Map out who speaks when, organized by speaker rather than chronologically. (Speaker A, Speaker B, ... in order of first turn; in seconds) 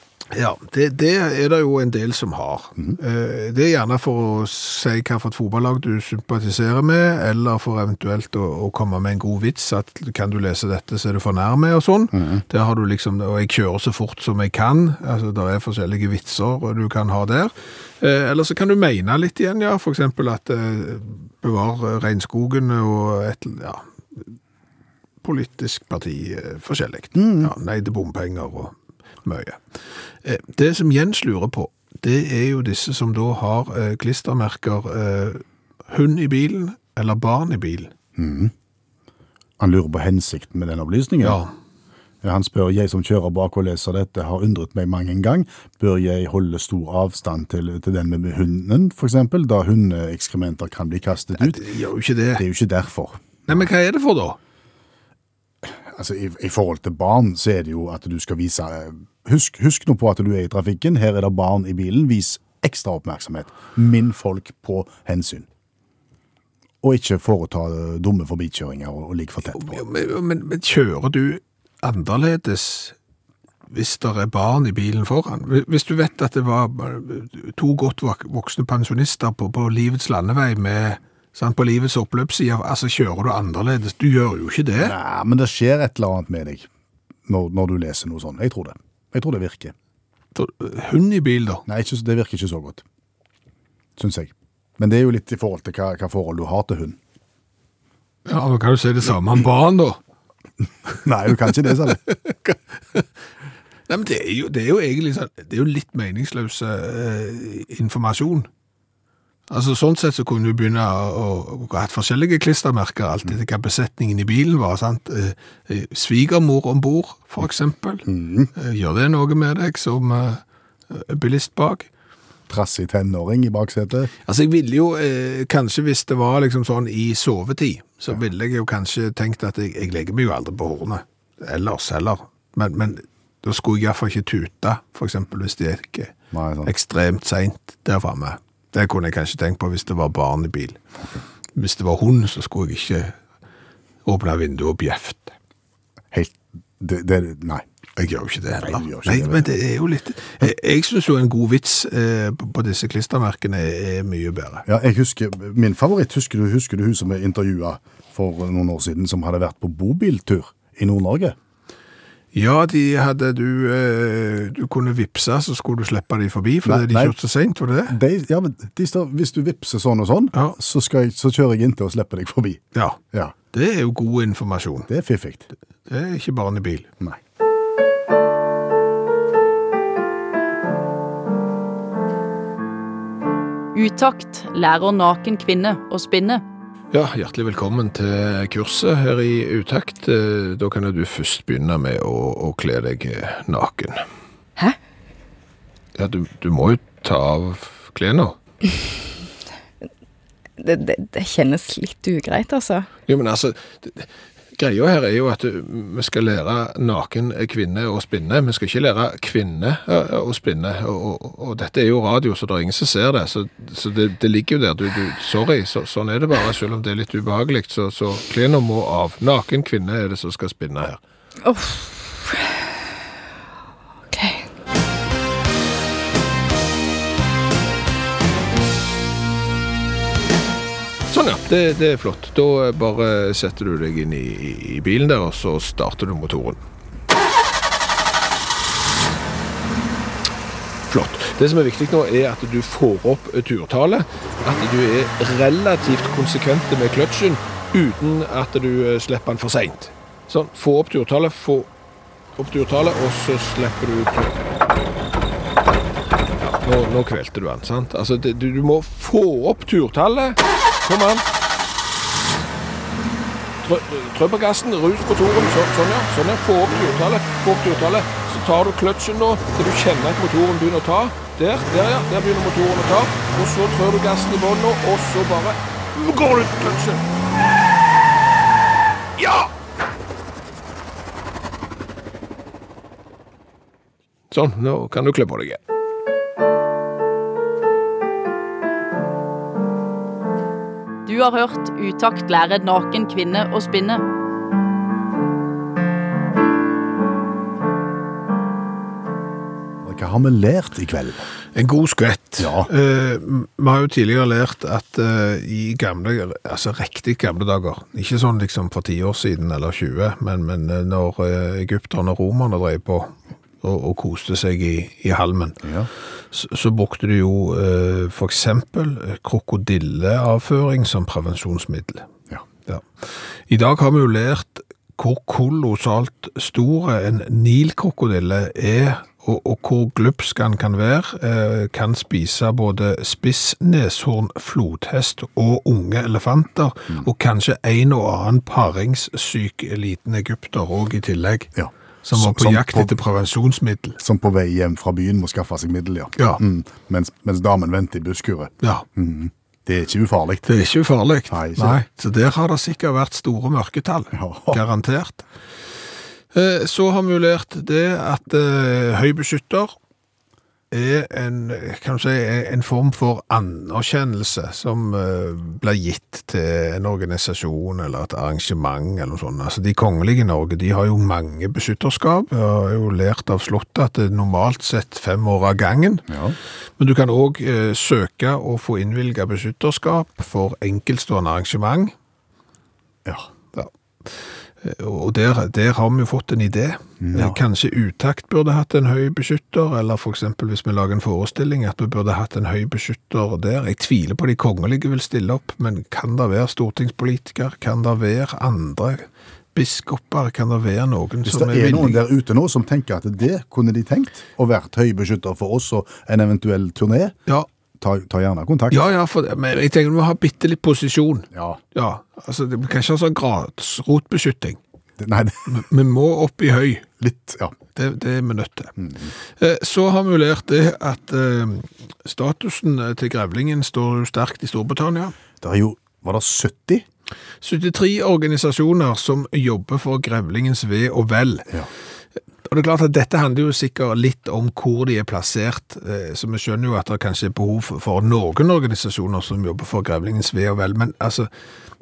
Speaker A: 0.3-24.3, 25.2-29.6, 30.2-37.9, 41.2-41.5, 51.4-52.4, 53.5-54.4, 69.5-72.9, 73.7-84.9, 90.3-91.6, 98.2-100.0, 102.1-103.1, 103.9-108.5, 109.5-121.9, 124.2-136.1, 136.6-140.8, 141.6-143.1, 144.1-145.3, 148.0-154.6, 162.3-168.0, 173.5-174.9, 175.9-176.9, 186.9-194.0, 195.9-198.3, 203.1-221.0, 231.1-236.6, 240.9-251.7, 252.4-254.3, 256.4-261.2, 263.6-277.1, 279.2-279.5, 284.3-285.6, 301.5-315.6, 316.3-322.1, 323.5-341.5, 342.0-344.0, 350.4-355.2, 356.3-359.7, 360.7-376.1, 376.8-381.9, 383.5-402.1, 408.7-414.6, 415.5-416.9, 417.8-418.7, 419.4-425.1, 427.4-431.5, 432.4-441.3
Speaker B: 12.1-12.4, 27.1-27.5, 38.1-38.5, 39.6-41.4, 42.2-51.6, 52.4-53.5, 55.6-65.5, 66.8-69.8, 84.8-86.7, 87.3-89.7, 91.7-92.8, 94.0-97.0, 100.9-102.0, 118.0-118.5, 122.5-124.1, 136.3-136.7, 146.1-147.6, 148.6-149.5, 154.7-161.3, 166.6-167.1, 167.9-173.3, 174.9-175.5, 299.8-301.2, 302.4-302.7, 315.6-315.9, 341.5-342.9, 344.0-350.5, 351.3-351.8, 354.1-354.6, 376.1-376.4, 387.0-387.4, 401.2-407.2, 407.8-408.8, 411.3-411.6, 415.0-415.6, 417.0-417.5, 418.8-419.1, 425.4-426.9
Speaker C: 183.7-186.4, 291.1-294.0
Speaker D: 200.6-202.9, 221.4-222.6, 224.1-224.5